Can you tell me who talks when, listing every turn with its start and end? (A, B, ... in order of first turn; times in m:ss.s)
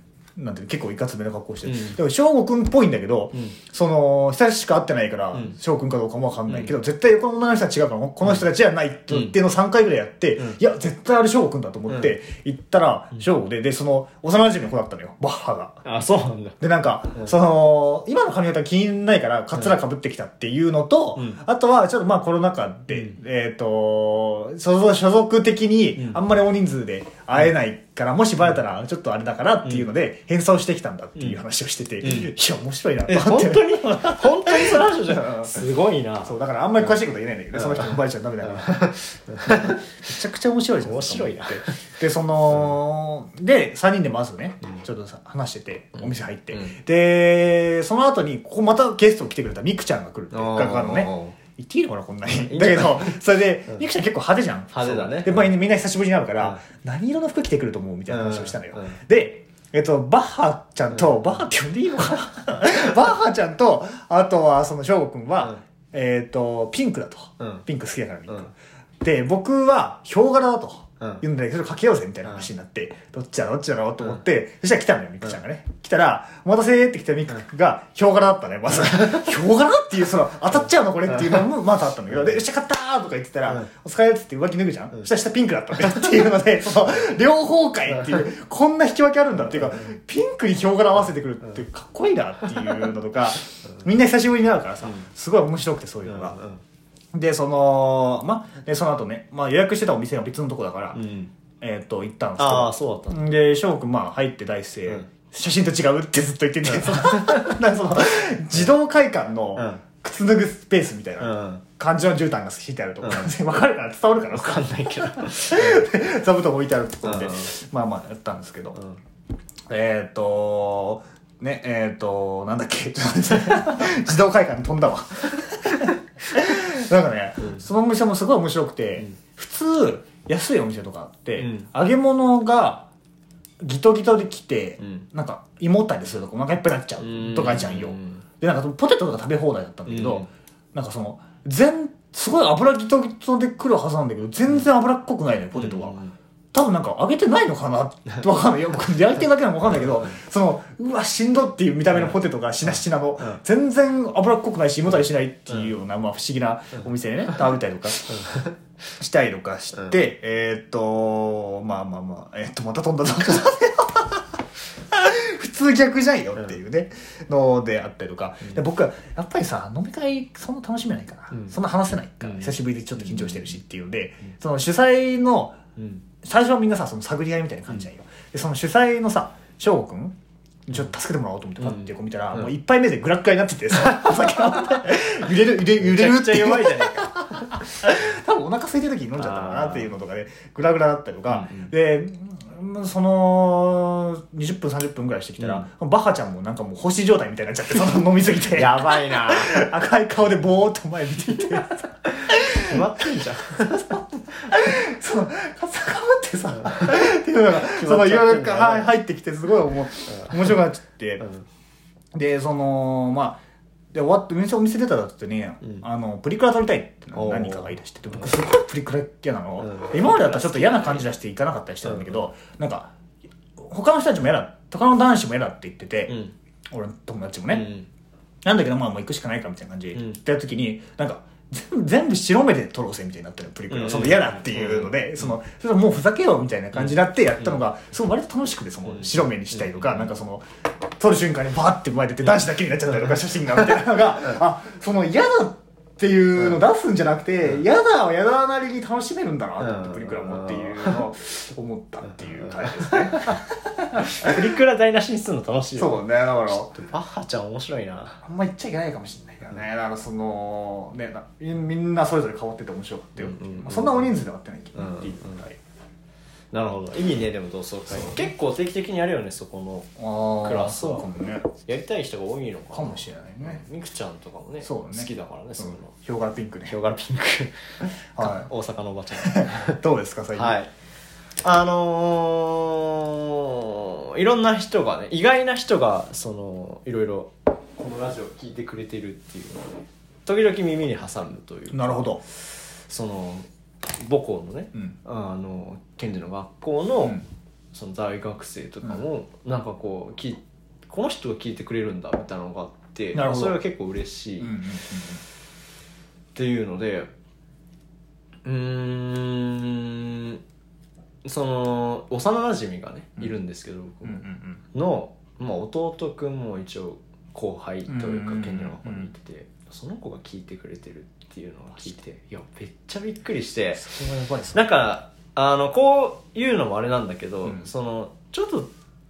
0:00.4-0:15.8 A
0:01.6-0:02.0 B
0:06.5-0:06.7 B
0:09.1-0:09.4 B
0:11.9-0:12.1 B
0:15.8-0:16.6 B
0:16.6-0:35.6 A
0:21.2-0:21.4 B
0:22.9-0:23.2 B
0:29.6-0:29.9 B
0:32.0-0:32.3 B
0:33.1-0:36.4 B
0:36.2-0:38.9 A
0:37.5-0:40.0 B
0:39.4-1:36.4 A
0:40.8-0:41.8 B
0:46.0-0:46.8 B
0:50.3-0:51.4 B
0:52.3-0:53.8 B
0:54.7-0:55.5 B
0:58.1-0:59.0 B
1:00.9-1:01.3 B
1:07.4-1:07.6 B
1:18.8-1:19.3 B
1:21.1-1:21.4 B
1:34.8-1:35.1 B
1:36.1-1:36.6 B
1:37.1-1:41.0 A
1:40.9-1:41.3 B
1:41.6-1:58.8 A
1:42.4-1:43.2 B
1:46.8-1:47.5 B
1:49.6-1:49.8 B
1:51.2-1:51.6 B
1:53.0-1:53.3 B
1:54.3-1:55.9 B
1:57.0-1:57.5 B
1:58.8-1:59.0 B
1:59.7-2:12.9 A
2:07.4-2:07.6 B
2:11.4-2:11.7 B
2:13.6-2:26.0 A
2:14.8-2:15.1 B
2:17.0-2:18.2 B
2:19.9-2:20.3 B
2:25.6-2:26.1 B
2:26.5-2:38.2 A
2:31.9-2:33.4 B
2:38.1-2:38.5 B
2:39.0-2:44.3 A
2:44.9-2:55.6 A
2:51.3-2:51.6 B
2:52.2-2:53.6 B
2:55.8-2:56.0 B
2:56.2-3:22.8 A
3:01.6-3:02.5 B
3:04.0-3:04.6 B
3:05.8-3:08.1 B
3:09.2-3:09.9 B
3:11.3-3:11.7 B
3:15.4-3:15.7 B
3:18.5-3:19.7 B
3:22.1-3:24.5 B
3:23.7-3:31.2 A
3:26.6-3:29.0 B
3:30.1-3:30.5 B
3:31.2-3:31.5 B
3:32.1-3:33.4 A
3:33.9-3:42.9 A
3:37.1-3:38.3 B
3:39.6-3:41.1 B
3:41.8-3:42.3 B
3:43.6-3:46.2 A
3:46.1-3:46.3 B
3:46.7-3:47.7 A
3:47.5-3:47.9 B
3:48.4-4:00.5 A
3:53.7-3:55.4 B
3:56.7-3:57.6 B
3:58.9-4:00.1 B
4:01.0-4:14.6 A
4:02.9-4:03.1 B
4:09.6-4:11.0 B
4:12.4-4:13.4 B
4:14.0-4:18.2 B
4:15.8-4:16.8 A
4:18.2-4:25.6 A
4:23.2-4:24.2 B
4:24.8-4:25.4 B
4:26.5-4:35.9 B
4:27.9-4:28.3 A
4:30.0-4:31.5 A
4:32.7-4:33.6 A
4:34.6-4:36.8 A
4:36.7-4:39.8 B
4:38.2-4:38.5 A
4:39.2-4:40.6 A
4:40.4-4:40.7 B
4:41.4-4:52.2 B
4:51.7-4:52.2 A
4:52.9-4:57.2 B
4:57.7-5:04.6 B
5:03.1-5:03.6 A
5:04.4-5:05.2 A
5:06.4-5:07.1 B
5:08.4-5:10.4 B
5:11.2-5:23.8 B
5:14.0-5:14.6 A
5:17.9-5:19.1 A
5:23.8-5:24.7 A
5:24.5-5:28.7 B
5:27.4-5:27.7 A